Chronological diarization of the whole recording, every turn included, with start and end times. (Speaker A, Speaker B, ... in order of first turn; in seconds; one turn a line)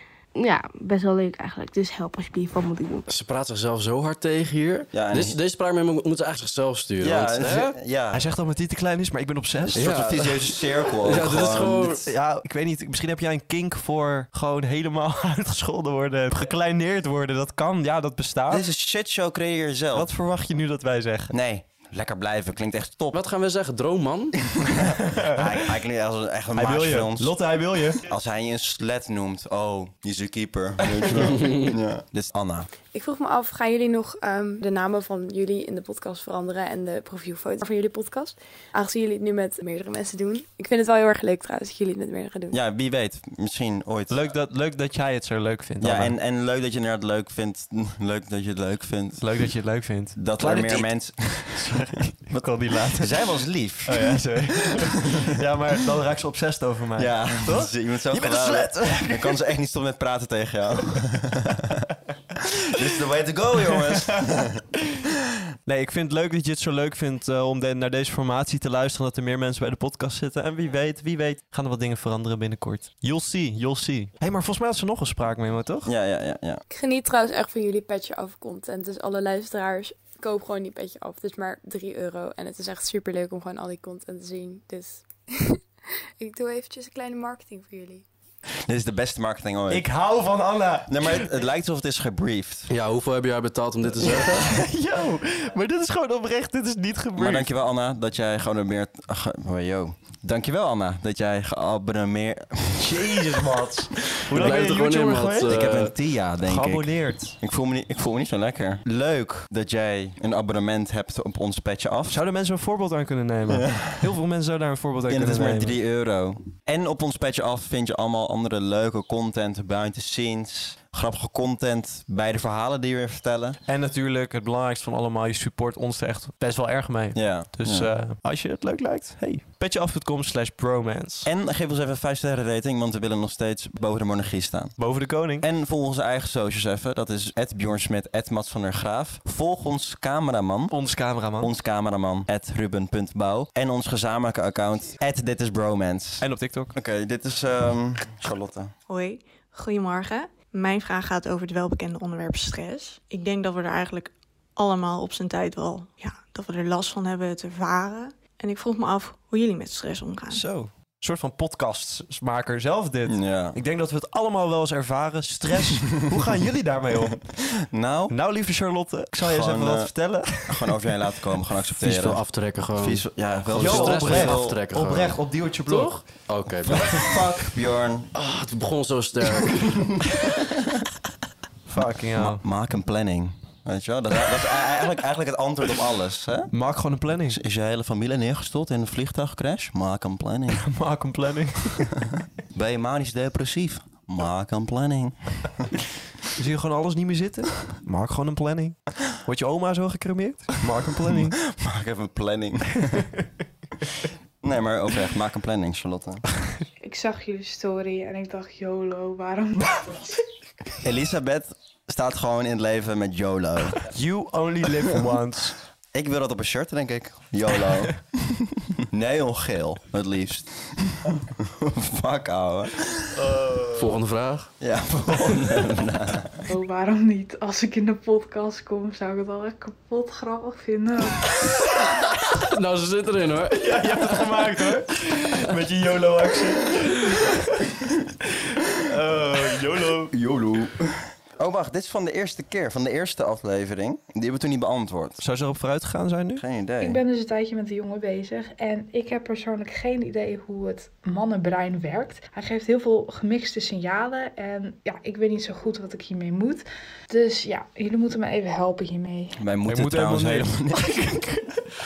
Speaker A: 0.4-3.0
Speaker B: 3.1-7.8
Speaker C: 4.9-5.4
Speaker C: 7.0-8.2
Speaker D: 8.1-10.0
Speaker C: 9.7-12.0
Speaker B: 9.8-12.1
Speaker D: 12.0-18.7
Speaker C: 18.5-20.1
Speaker D: 19.9-21.3
Speaker C: 21.3-23.2
Speaker B: 23.1-24.4
Speaker C: 24.6-27.4
Speaker D: 25.0-25.4
Speaker D: 26.6-28.0
Speaker C: 28.1-32.7
Speaker E: 32.9-42.6
Speaker C: 42.5-44.2
Speaker D: 44.1-46.1
Speaker C: 45.8-49.3
Speaker D: 49.2-53.3
Speaker C: 50.2-51.8
Speaker C: 52.3-55.2
Speaker D: 53.9-59.4
Speaker C: 57.0-61.8
Speaker C: 62.7-64.6
Speaker D: 65.7-75.9
Speaker C: 75.9-76.6
Speaker E: 76.7-85.6
Speaker E: 86.2-88.0
Speaker C: 88.7-89.9
Speaker D: 89.7-91.3
Speaker C: 90.9-92.7
Speaker B: 92.7-94.4
Speaker D: 94.3-97.5
Speaker C: 97.2-103.2
Speaker D: 102.8-105.9
Speaker B: 104.3-105.9
Speaker C: 105.5-112.2
Speaker D: 106.4-107.4
Speaker D: 112.1-115.8
Speaker C: 113.5-114.1
Speaker C: 115.1-123.6
Speaker D: 123.7-131.3
Speaker C: 127.2-127.9
Speaker C: 131.2-134.8
Speaker D: 134.8-135.4
Speaker C: 135.3-140.8
Speaker D: 140.7-141.5
Speaker C: 141.4-148.7
Speaker D: 146.2-146.7
Speaker F: 148.9-160.4
Speaker D: 160.3-167.4
Speaker C: 163.1-163.6
Speaker C: 167.7-168.2
Speaker D: 168.1-170.6
Speaker C: 169.2-174.6
Speaker B: 171.8-177.1
Speaker D: 173.5-176.3
Speaker C: 176.7-178.1
Speaker B: 178.1-179.7
Speaker D: 181.7-182.4
Speaker C: 182.2-186.5
Speaker D: 186.5-187.4
Speaker C: 187.3-190.7
Speaker D: 190.6-191.9
Speaker C: 192.5-195.5
Speaker D: 196.4-201.3
Speaker C: 201.2-203.1
Speaker C: 204.4-206.3
Speaker G: 206.8-210.1
Speaker C: 210.8-213.9
Speaker D: 213.9-215.6
Speaker C: 215.9-223.1
Speaker D: 223.2-223.9
Speaker B: 223.8-224.5
Speaker C: 224.6-226.4
Speaker G: 226.5-231.2
Speaker B: 232.5-234.1
Speaker D: 233.5-237.4
Speaker D: 238.8-240.1
Speaker C: 240.1-245.2
Speaker D: 245.2-246.4
Speaker C: 246.4-247.0
Speaker G: 246.8-259.4
Speaker C: 259.4-261.0
Speaker D: 259.7-261.5